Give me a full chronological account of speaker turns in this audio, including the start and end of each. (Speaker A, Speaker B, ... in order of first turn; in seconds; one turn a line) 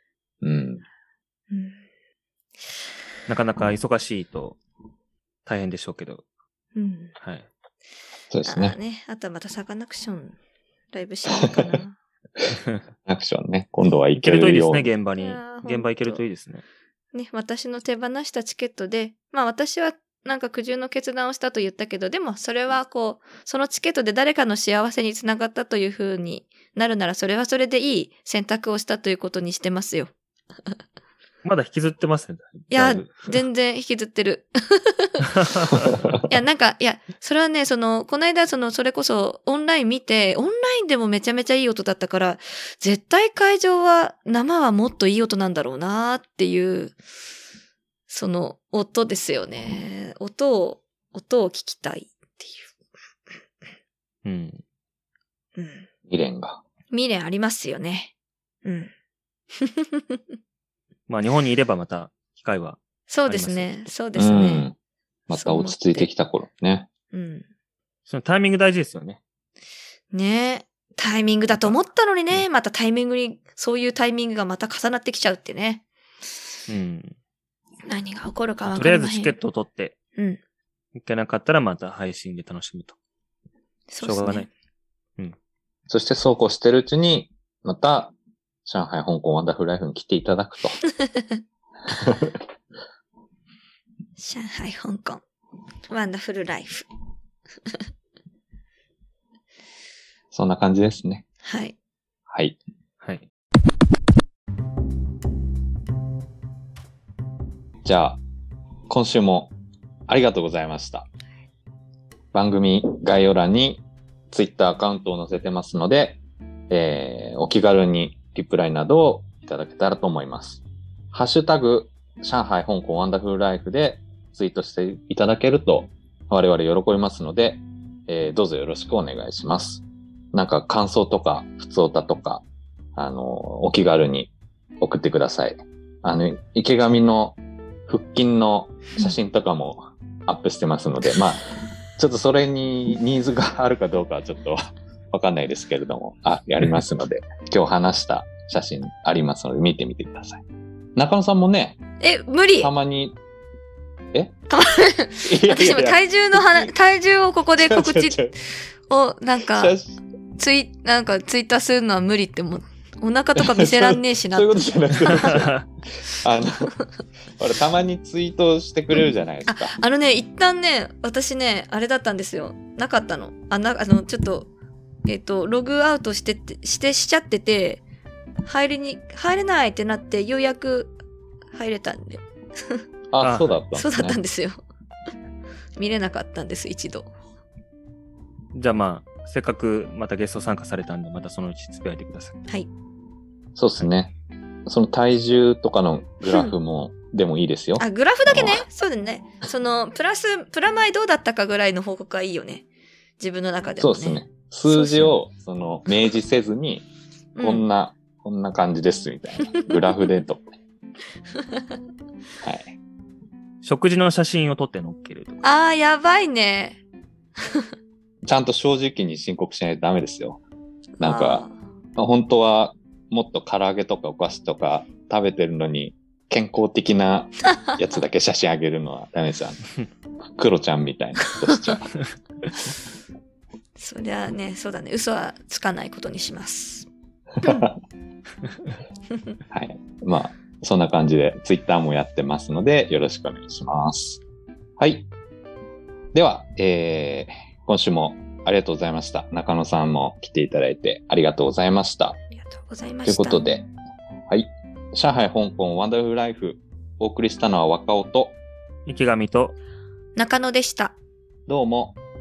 Speaker A: 0.4-0.8
Speaker B: 1.5-1.8
Speaker C: 3.3-4.6
Speaker C: 5.5-6.2
Speaker B: 6.7-7.1
Speaker C: 7.2-7.5
Speaker A: 8.3-8.8
Speaker B: 8.4-10.4
Speaker B: 10.9-11.9
Speaker A: 13.1-14.9
Speaker C: 14.1-16.6
Speaker B: 15.2-16.2
Speaker B: 17.1-30.1
Speaker C: 31.4-33.4
Speaker B: 32.7-35.7
Speaker C: 35.2-36.1
Speaker A: 35.9-36.2
Speaker B: 36.3-47.0
Speaker B: 48.1-52.7
Speaker C: 54.2-54.6
Speaker B: 55.5-55.9
Speaker A: 56.1-56.6
Speaker B: 56.9-58.1
Speaker B: 58.6-58.9
Speaker B: 59.5-60.2
Speaker C: 61.1-63.8
Speaker B: 63.1-64.7
Speaker A: 64.1-64.8
Speaker A: 65.3-66.9
Speaker B: 65.3-66.1
Speaker B: 67.1-67.5
Speaker C: 68.1-69.2
Speaker B: 70.1-75.8
Speaker C: 71.5-71.8
Speaker C: 76.7-77.1
Speaker B: 77.8-79.3
Speaker C: 78.7-80.0
Speaker C: 81.0-83.0
Speaker B: 83.9-84.5
Speaker C: 84.0-84.5
Speaker A: 85.9-90.8
Speaker A: 91.9-92.3
Speaker B: 94.2-95.2
Speaker B: 95.9-96.9
Speaker A: 100.3-101.2
Speaker B: 101.4-101.7
Speaker A: 102.3-102.6
Speaker C: 103.0-103.2
Speaker A: 107.8-108.2
Speaker A: 108.9-109.5
Speaker A: 110.1-111.0
Speaker A: 112.3-150.4
Speaker A: 150.9-151.8
Speaker B: 152.0-152.7
Speaker A: 152.6-153.2
Speaker B: 154.5-158.3
Speaker A: 155.2-156.7
Speaker A: 157.6-158.3
Speaker B: 158.9-159.8
Speaker A: 159.5-160.0
Speaker B: 160.4-165.4
Speaker A: 163.3-165.5
Speaker C: 165.1-165.7
Speaker A: 166.1-166.7
Speaker A: 167.4-169.7
Speaker B: 169.5-174.5
Speaker B: 175.1-177.8
Speaker B: 178.4-180.9
Speaker B: 181.5-182.8
Speaker A: 183.1-184.2
Speaker C: 183.2-183.6
Speaker B: 183.7-184.6
Speaker B: 185.8-187.1
Speaker C: 188.5-192.4
Speaker A: 193.5-194.1
Speaker A: 194.7-198.6
Speaker B: 197.8-202.7
Speaker B: 203.2-205.1
Speaker A: 203.8-206.9
Speaker B: 207.3-207.7
Speaker A: 207.4-210.4
Speaker B: 209.4-209.8
Speaker B: 211.3-211.7
Speaker A: 212.4-212.7
Speaker C: 213.6-215.4
Speaker B: 215.4-216.8
Speaker B: 217.4-217.6
Speaker A: 218.2-220.4
Speaker B: 221.0-221.6
Speaker A: 221.0-229.6
Speaker A: 230.4-231.9
Speaker B: 231.2-231.8
Speaker B: 233.8-236.9
Speaker A: 237.4-237.7
Speaker A: 239.5-244.2
Speaker A: 244.8-245.1
Speaker A: 246.1-252.2
Speaker B: 252.3-253.5
Speaker A: 253.1-253.7
Speaker A: 254.3-258.4
Speaker C: 258.9-259.6
Speaker B: 260.1-260.9
Speaker A: 261.5-262.0